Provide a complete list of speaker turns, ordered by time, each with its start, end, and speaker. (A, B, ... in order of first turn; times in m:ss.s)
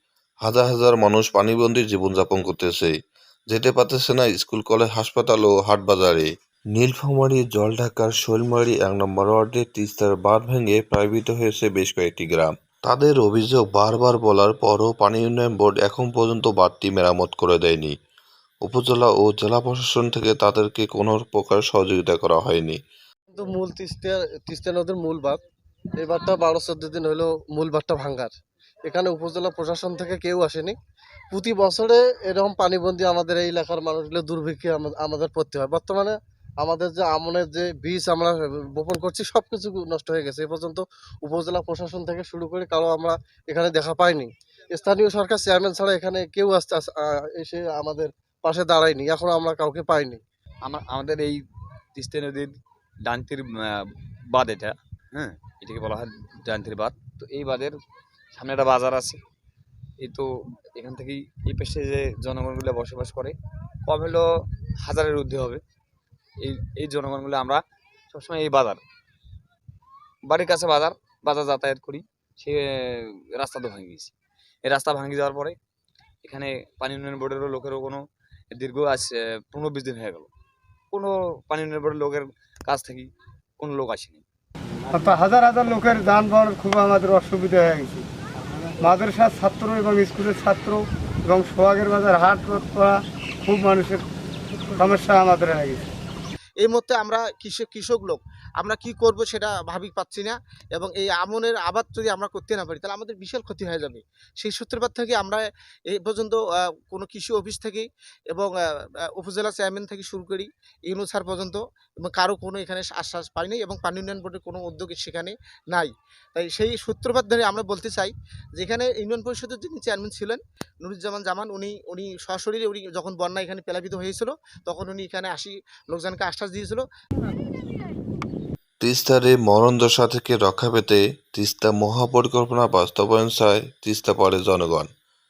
0:00.4-0:03.0 A
0:03.5-0:17.9 A
0:18.6-0:22.8 A
0:23.3-0:25.4 B
0:26.0-0:28.3 B
0:28.9-0:30.8 B
0:31.3-0:50.2 B
0:50.6-0:51.4 C
0:52.0-0:52.6 C
0:53.1-0:57.8 C
0:58.3-0:59.2 C
1:00.0-1:05.6 C
1:06.4-1:08.8 C
1:10.3-1:14.1 C
1:14.6-1:15.6 C
1:16.2-1:20.3 C
1:20.9-1:24.2 C
1:24.9-1:28.1 D
1:28.8-1:34.0 D
1:34.6-1:35.8 D
1:36.6-1:48.5 E
1:49.2-2:06.8 E
2:08.8-2:14.9 A